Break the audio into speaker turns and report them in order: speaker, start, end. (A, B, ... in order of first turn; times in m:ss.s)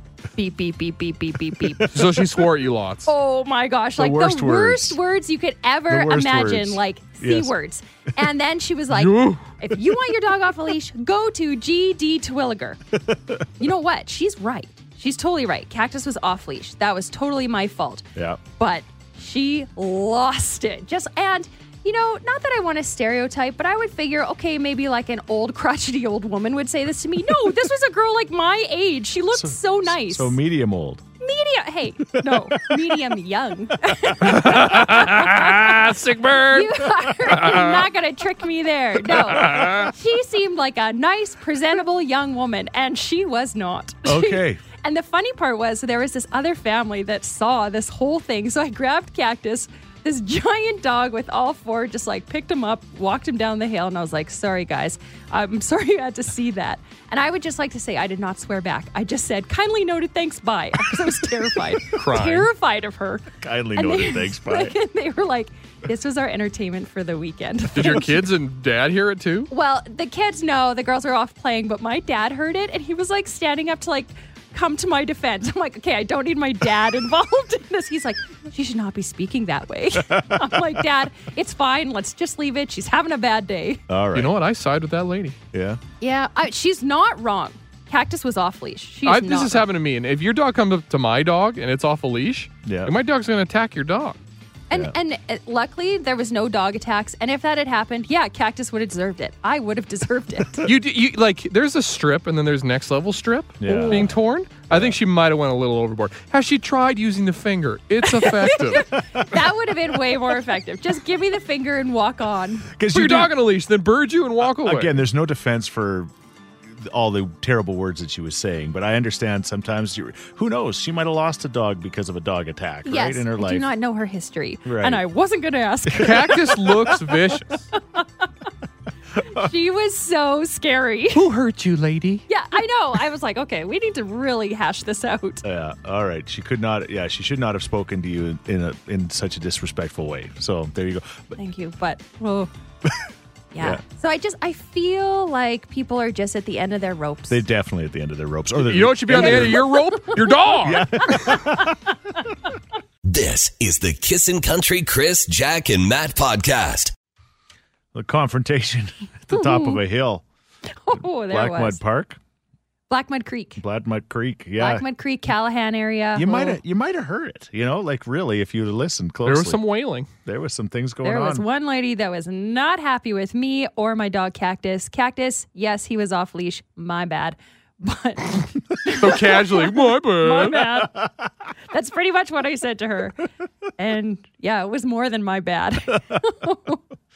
0:00.3-0:02.0 A
0:01.6-0:02.1 B
0:01.9-0:03.1 C
0:03.0-0:12.8 A
0:04.0-0:05.0 B
0:05.9-0:07.5 B
0:08.9-0:09.5 C
0:13.0-0:13.4 B
0:13.6-0:18.1 A
0:18.1-0:18.4 B
0:18.6-0:30.4 A
0:29.3-0:31.0 B
0:31.2-1:08.1 A
0:32.1-0:32.9 B
0:34.2-0:37.9 C
0:39.1-0:39.9 C
0:44.0-0:44.6 B
1:01.9-1:02.5 C
1:03.4-1:04.8 B
1:07.7-1:09.5 C
1:09.5-1:23.8 A
1:20.0-1:20.8 B
1:23.9-1:24.3 B
1:24.1-1:25.4 C
1:25.5-1:25.8 B
1:26.0-1:29.7 A
1:29.0-1:34.2 C
1:32.6-1:32.9 B
1:34.7-1:40.7 A
1:40.6-1:48.9 C
1:43.6-1:44.2 B
1:43.7-1:44.0 A
1:44.7-1:45.0 B
1:48.0-1:52.7 A
1:48.9-1:49.4 B
1:52.7-1:53.3 B
1:52.9-1:55.0 C
1:54.6-1:56.1 B
1:56.7-2:03.7 B
2:02.8-2:06.7 A
2:04.6-2:05.0 B
2:05.9-2:06.3 B
2:06.0-2:07.7 C
2:09.2-2:09.5 B
2:09.3-2:11.3 A
2:11.1-2:12.2 C
2:12.3-2:15.4 A
2:15.4-2:21.3 B
2:21.4-2:22.5 A
2:23.5-2:27.4 A
2:27.3-2:29.7 B
2:28.6-2:31.3 C
2:29.1-2:30.3 A
2:30.6-2:31.8 B
2:31.2-2:31.7 A
2:33.0-2:36.9 D
2:37.9-2:40.2 B
2:39.3-2:39.8 A
2:40.7-2:41.8 A
2:41.0-2:42.2 B
2:42.9-2:43.6 A
2:43.6-2:44.8 B
2:44.6-2:46.6 A
2:46.2-2:49.6 B
2:49.2-2:50.1 C
2:50.2-2:51.4 B
2:51.0-3:01.0 A
2:58.9-3:00.7 C
3:01.7-3:06.8 A